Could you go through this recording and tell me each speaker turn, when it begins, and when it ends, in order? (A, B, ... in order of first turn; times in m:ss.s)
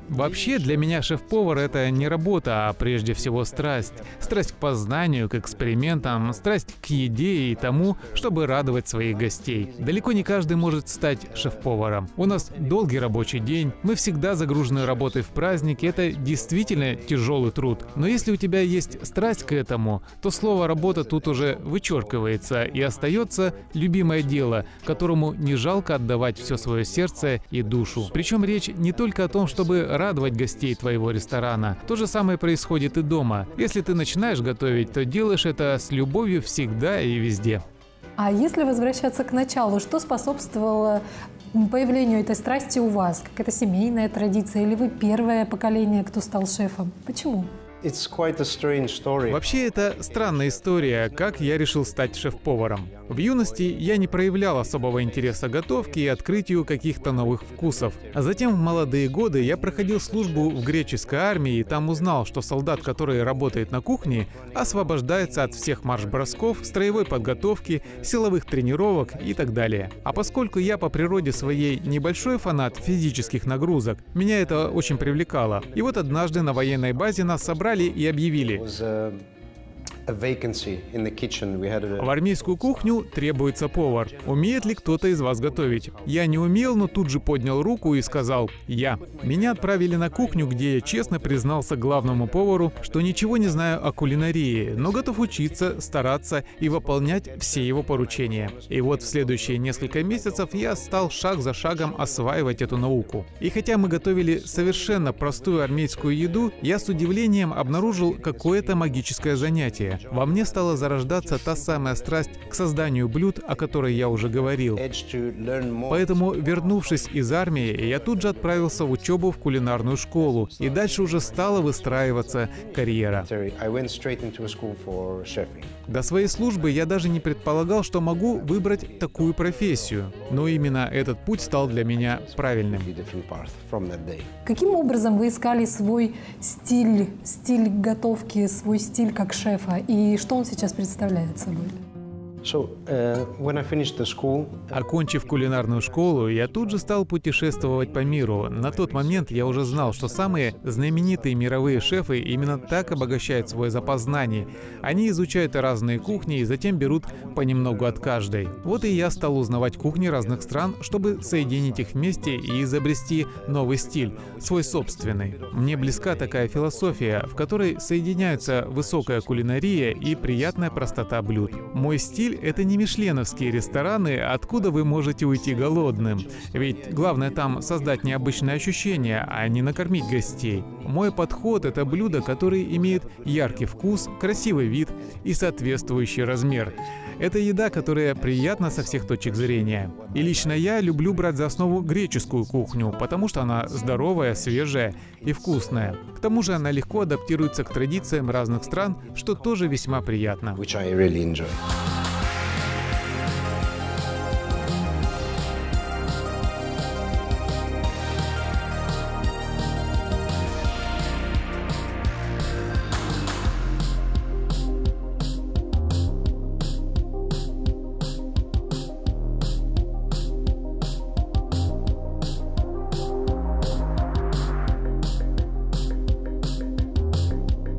0:00.1-0:37.6 A
0:38.2-0:47.5 B
0:47.8-0:49.4 C
0:49.3-1:18.6 A
1:18.5-1:19.2 C
1:20.1-1:22.2 C
1:22.0-1:54.8 A
1:42.2-1:42.6 C
1:54.8-1:56.2 C
1:55.9-2:03.3 A
2:01.1-2:01.7 C
2:03.2-2:05.7 C
2:05.9-2:12.9 A
2:12.6-2:14.3 C
2:14.4-2:21.8 B
2:22.4-2:24.7 C
2:24.7-3:20.6 A
3:20.6-3:21.6 C